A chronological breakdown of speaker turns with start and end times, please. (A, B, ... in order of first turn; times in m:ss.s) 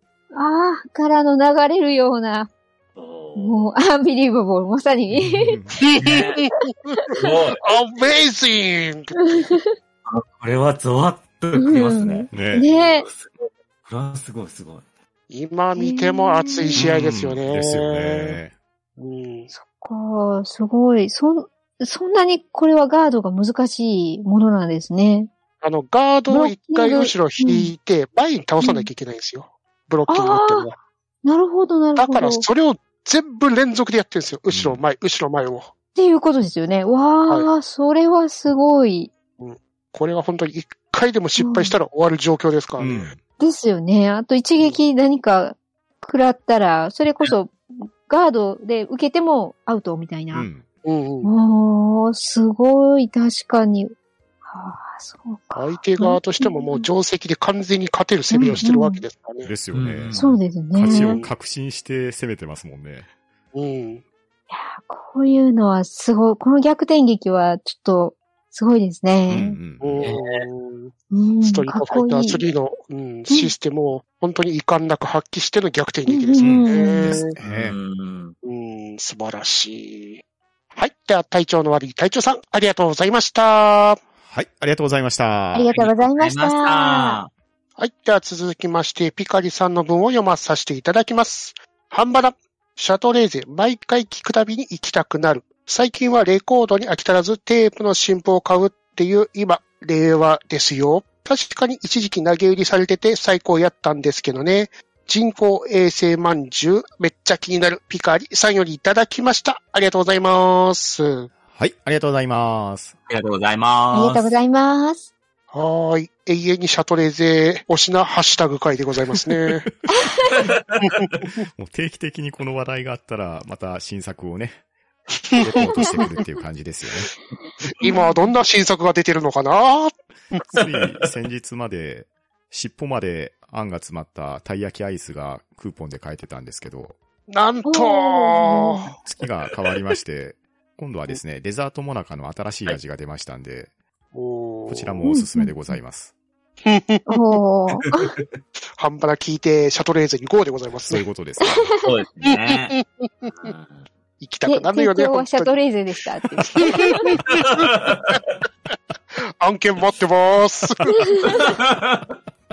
0:00.3-0:02.5 A
0:03.0-0:03.6 B
0:03.4-0:05.6 A
0:05.4-0:05.8 C
0:05.9-0:09.5 D
0:05.9-0:06.5 B
0:07.1-0:07.6 B
0:09.2-0:09.7 A
0:10.0-0:14.8 B
0:11.6-0:13.1 A
0:12.3-0:12.6 C
0:15.3-0:18.4 D
0:15.7-0:16.8 A
0:16.8-0:17.1 B
0:16.8-0:18.5 C
0:19.0-0:19.5 D
0:19.5-0:25.3 A
0:25.6-0:30.8 D
0:26.3-0:27.7 A
0:28.6-0:28.9 A
0:30.1-0:30.7 A
0:31.2-0:32.4 A
0:32.0-0:35.7 D
0:34.5-0:34.8 C
0:36.0-0:39.1 A
0:39.4-0:43.1 D
0:41.4-0:41.7 A
0:42.8-0:43.2 C
0:43.4-0:50.4 A
0:50.3-0:50.6 C
0:50.8-0:51.3 D
0:51.2-0:53.9 A
0:54.4-0:56.9 A
0:55.5-0:59.5 D
0:58.3-0:59.0 A
0:59.4-1:03.1 C
0:59.7-1:00.3 B
1:00.2-1:01.2 A
1:00.8-1:01.3 D
1:03.5-1:04.0 D
1:04.5-1:09.6 A
1:09.3-1:10.0 C
1:09.8-1:17.4 D
1:10.0-1:10.4 B
1:11.1-1:12.5 A
1:16.1-1:17.2 A
1:16.4-1:17.7 C
1:17.4-1:18.3 B
1:18.4-1:20.2 D
1:20.7-1:24.0 D
1:24.2-1:25.8 C
1:25.5-1:27.2 A
1:25.7-1:27.3 B
1:27.8-1:51.3 D
1:51.5-1:53.0 C
1:53.1-1:54.3 B
1:53.9-1:55.1 A
1:55.5-1:59.7 D
1:59.9-2:00.3 A
2:00.3-2:01.2 B
2:00.8-2:01.1 D
2:01.6-2:04.6 C
2:05.3-2:07.1 C
2:05.5-2:05.8 D
2:07.8-2:10.4 D
2:07.8-2:08.3 A
2:10.5-2:17.0 C
2:17.3-2:19.0 D
2:17.6-2:18.9 A
2:19.0-2:23.7 C
2:24.1-2:25.0 D
2:24.7-2:26.1 C
2:25.0-2:25.5 A
2:26.6-2:27.2 D
2:27.1-2:28.1 A
2:28.8-2:31.0 D
2:30.9-2:31.8 C
2:31.8-2:33.9 B
2:32.5-2:33.5 D
2:34.2-2:35.6 D
2:34.4-2:37.1 A
2:36.4-2:37.7 D
2:37.2-2:38.2 B
2:39.1-2:40.9 D
2:41.1-2:41.4 A
2:41.2-2:42.1 B